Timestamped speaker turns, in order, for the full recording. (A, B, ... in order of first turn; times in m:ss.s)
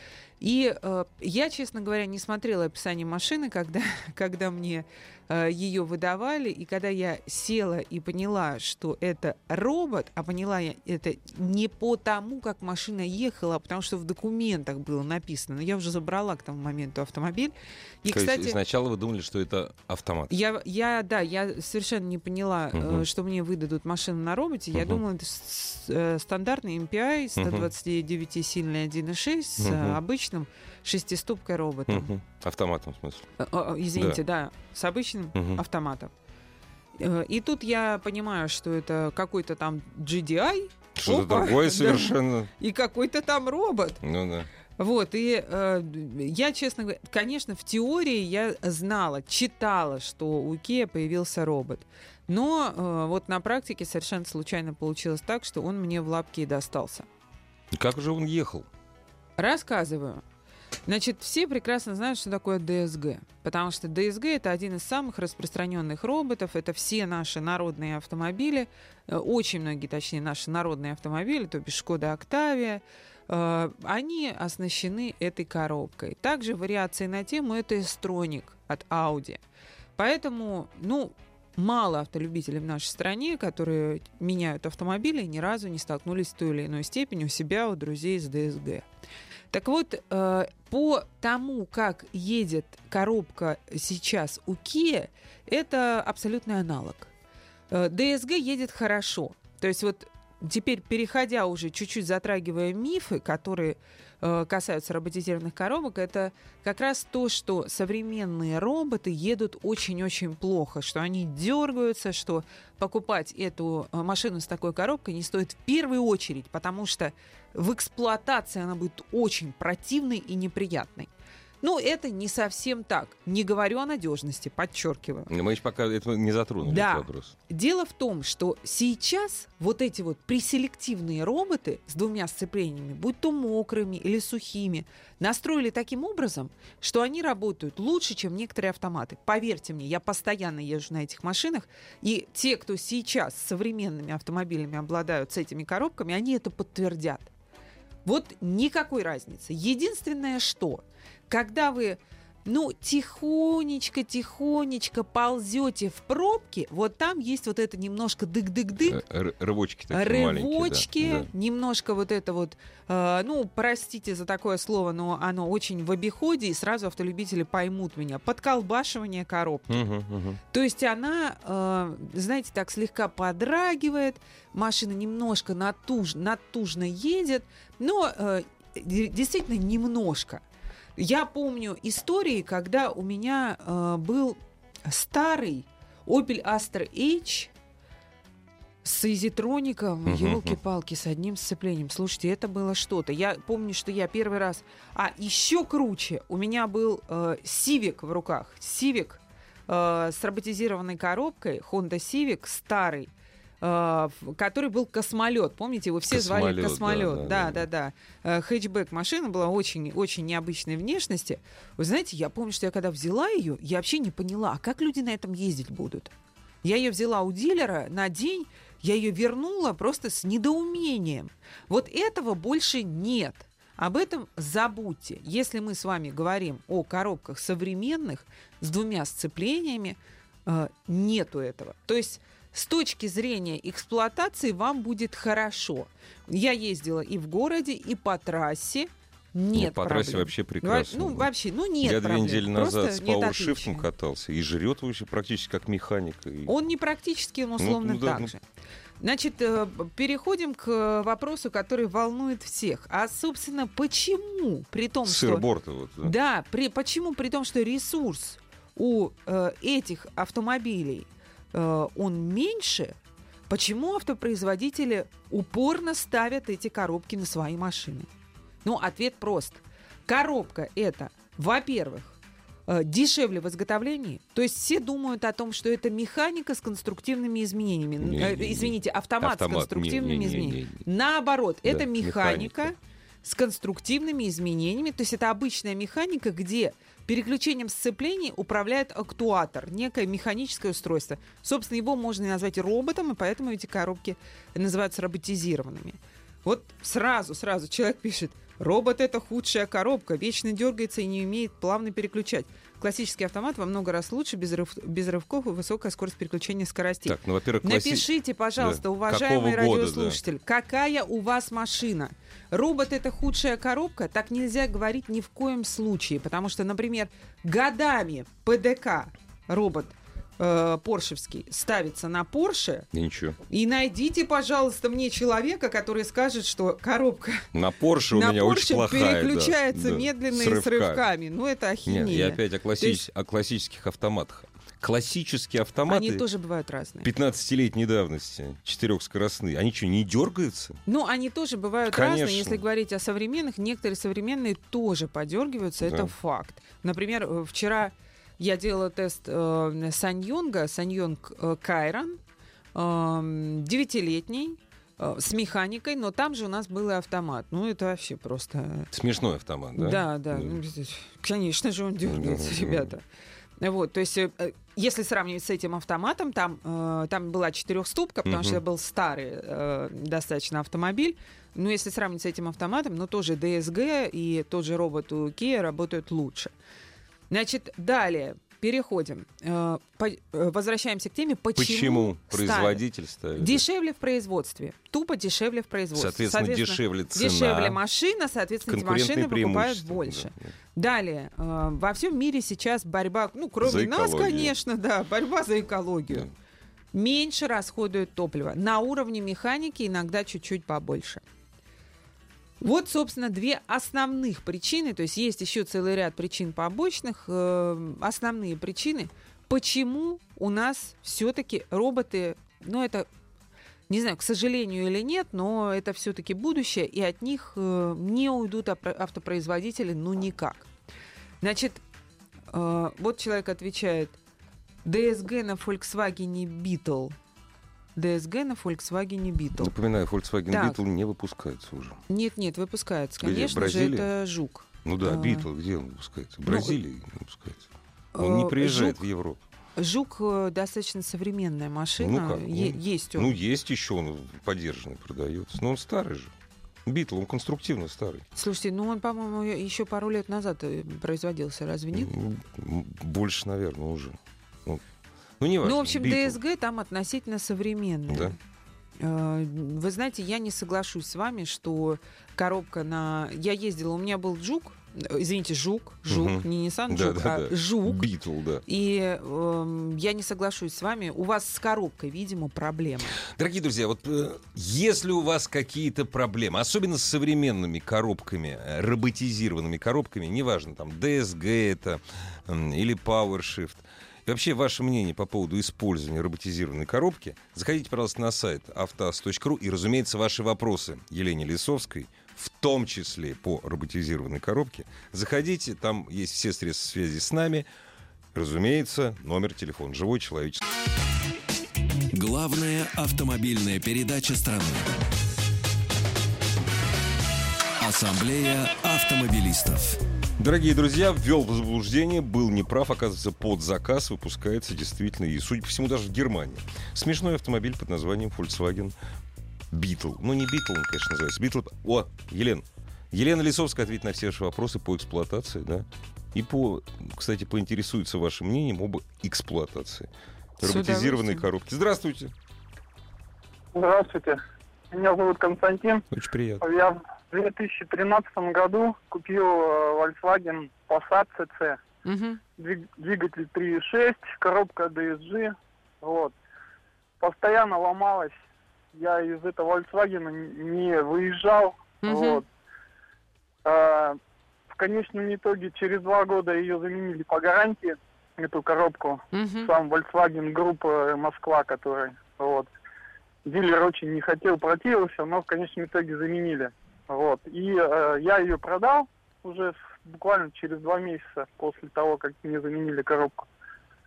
0:00.4-0:18.6 A
0:18.1-0:20.4 B
0:20.3-0:32.1 A
0:22.7-0:23.0 B
0:24.7-0:25.0 B
0:27.4-0:27.7 B
0:29.6-0:30.0 B
0:31.9-0:33.2 B
0:33.4-0:36.1 A
0:33.9-0:34.2 B
0:35.3-0:35.6 B
0:37.0-0:44.0 A
0:40.9-0:42.5 B
0:44.0-0:44.5 B
0:44.8-0:57.1 A
0:57.7-0:58.7 B
0:59.4-1:00.2 A
1:00.8-1:19.4 A
1:20.0-1:28.8 A
1:29.5-1:37.1 A
1:37.7-2:01.1 A
2:01.6-2:05.3 A
2:05.3-2:07.3 B
2:06.6-2:27.3 A
2:28.0-2:39.0 A
2:38.8-2:41.3 B
2:39.9-2:49.8 A
2:49.7-2:50.4 B
2:50.5-3:00.4 A
3:01.0-3:07.5 A
3:08.8-3:36.1 A
3:10.0-3:10.6 B
3:26.1-3:27.7 B
3:36.6-4:03.9 A
3:59.5-4:01.3 B
4:01.8-4:06.5 B
4:06.5-4:08.4 A
4:07.6-4:08.3 B
4:09.0-4:15.4 A
4:15.0-4:16.1 B
4:16.0-4:22.9 A
4:23.5-4:28.1 A
4:28.6-5:22.9 A
4:38.0-4:40.8 B
4:41.6-4:42.7 B
5:07.0-5:10.2 B
5:22.9-5:23.4 B
5:23.5-5:27.5 A
5:27.5-5:31.0 B
5:28.1-5:33.0 A
5:31.8-5:36.2 B
5:35.9-5:37.1 A
5:37.0-5:40.8 B
5:40.9-5:52.2 A
5:41.8-5:42.6 B
5:45.8-5:46.1 B
5:52.7-5:58.9 A
5:58.9-6:00.6 B
5:59.7-6:03.0 A
6:02.0-6:02.9 B
6:03.6-6:16.5 A
6:08.2-6:08.6 B
6:17.3-6:22.8 A
6:21.6-6:23.6 B
6:23.4-6:36.3 A
6:25.9-6:27.8 B
6:28.6-6:30.5 B
6:33.6-6:34.5 B
6:36.9-6:41.2 A
6:42.6-6:53.1 A
6:53.9-7:00.7 A
7:01.4-7:01.8 A
7:02.5-7:04.1 A
7:04.8-7:07.1 A
7:07.9-7:09.7 A
7:09.6-7:12.0 B
7:10.5-7:10.8 A
7:12.1-7:15.5 A
7:13.2-7:14.1 B
7:14.8-7:19.4 B
7:16.5-7:16.8 A
7:18.1-7:19.0 A
7:19.8-7:23.4 A
7:22.0-7:26.3 B
7:26.8-7:28.2 B
7:28.3-7:32.1 A
7:31.9-7:34.8 B
7:35.4-7:36.4 B
7:35.6-7:38.4 A
7:38.1-7:38.3 B
7:39.0-7:48.1 A
7:46.1-7:48.6 B
7:48.6-7:53.2 A
7:53.2-8:17.7 B
8:18.3-8:20.6 B
8:22.1-8:24.9 C
8:27.8-8:30.0 C
8:30.4-8:38.9 B
8:39.7-8:52.3 B
8:50.6-8:51.5 A
8:53.7-8:54.4 D
8:54.9-8:56.0 D
8:56.1-8:56.6 B
8:56.6-9:01.8 D
9:02.0-9:02.4 A
9:02.6-9:06.3 D
9:07.2-9:08.3 D
9:08.9-9:12.4 D
9:12.0-9:12.4 A
9:13.6-9:14.2 D
9:14.7-9:22.7 D
9:19.3-9:19.7 A
9:23.4-9:33.4 D